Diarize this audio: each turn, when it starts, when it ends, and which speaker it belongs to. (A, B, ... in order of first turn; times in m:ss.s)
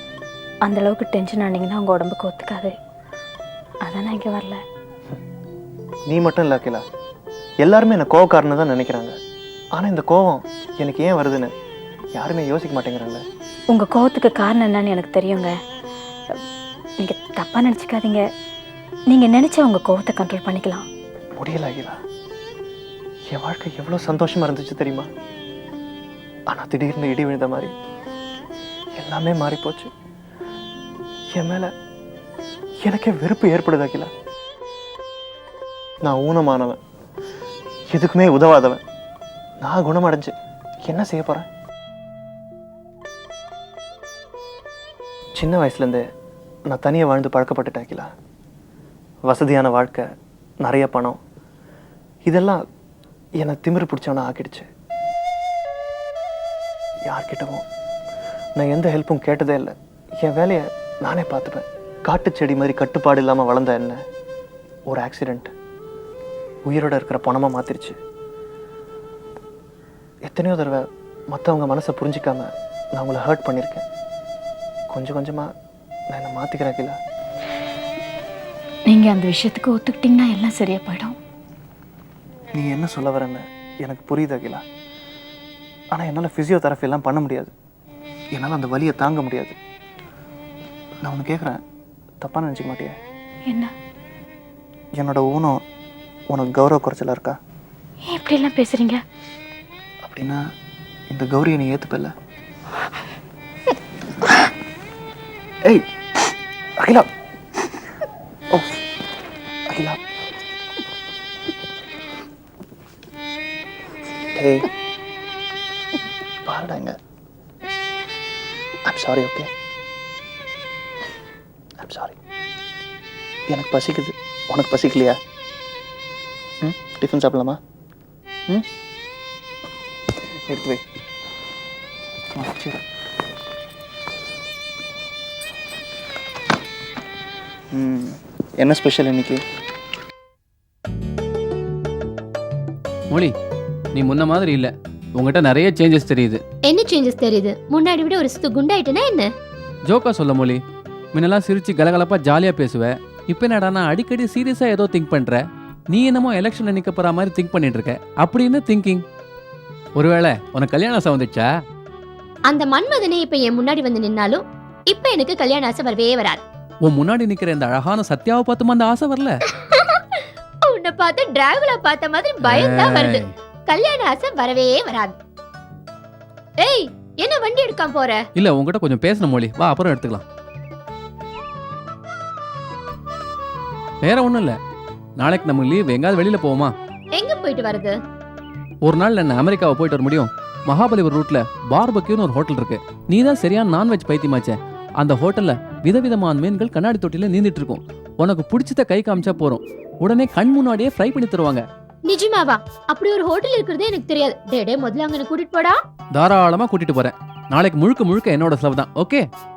0:00.6-0:02.7 A
0:03.8-0:04.6 A
0:06.1-0:06.8 B
0:07.6-0:09.2 B
0:09.8-0:11.5 B
0:12.2-0:13.2 B
0:13.7-0:15.6 A
0:17.0-0:18.3 A
0:19.1-0:20.8 A
0:21.4-0:22.0 B
0:23.3-0:25.1 B
0:26.5-0:27.7 B
0:29.0-0:29.9 B
0:31.4-0:31.7 B
0:32.8-0:34.1 B
0:36.0-0:36.8 B
0:37.9-0:38.8 B
0:39.6-0:40.3 B
0:40.9-0:41.5 B
0:45.4-0:46.0 B
0:46.7-0:48.1 B
0:49.3-0:50.1 B
0:50.6-0:51.2 B
0:52.3-0:52.6 B
0:53.4-0:54.7 B
0:57.1-0:57.6 B
0:58.6-1:04.0 B
1:04.9-1:05.5 B
1:06.7-1:08.0 B
1:10.3-1:13.8 B
1:14.9-1:15.5 B
1:16.1-1:17.0 B
1:18.9-1:21.2 A
1:22.6-1:24.6 B
1:25.9-1:27.5 B
1:28.4-1:29.6 B
1:31.0-1:31.6 B
1:32.2-1:33.0 B
1:35.0-1:35.6 B
1:36.3-1:37.4 B
1:38.1-1:39.0 A
1:40.0-1:40.4 B
1:41.1-1:42.1 B
1:46.8-1:47.1 B
1:48.5-1:48.8 B
1:49.7-1:50.0 B
1:54.4-1:54.7 B
1:56.5-1:57.0 B
1:58.9-1:59.5 B
2:01.8-2:02.2 B
2:03.5-2:05.2 B
2:06.6-2:07.6 B
2:10.4-2:10.8 B
2:12.4-2:12.8 B
2:17.7-2:19.4 B
2:24.0-2:26.4 C
2:26.7-2:29.3 D
2:29.9-2:30.6 C
2:31.2-2:39.0 C
2:40.0-2:41.5 C
2:42.5-2:46.4 D
2:46.9-2:49.3 C
2:49.7-2:50.0 D
2:50.6-2:55.2 D
2:52.4-2:53.3 C
2:56.6-2:58.2 D
2:58.4-3:00.2 C
3:04.0-3:04.6 C
3:05.2-3:06.7 C
3:07.2-3:08.0 D
3:08.8-3:21.6 C
3:22.1-3:25.8 D
3:26.2-3:29.3 C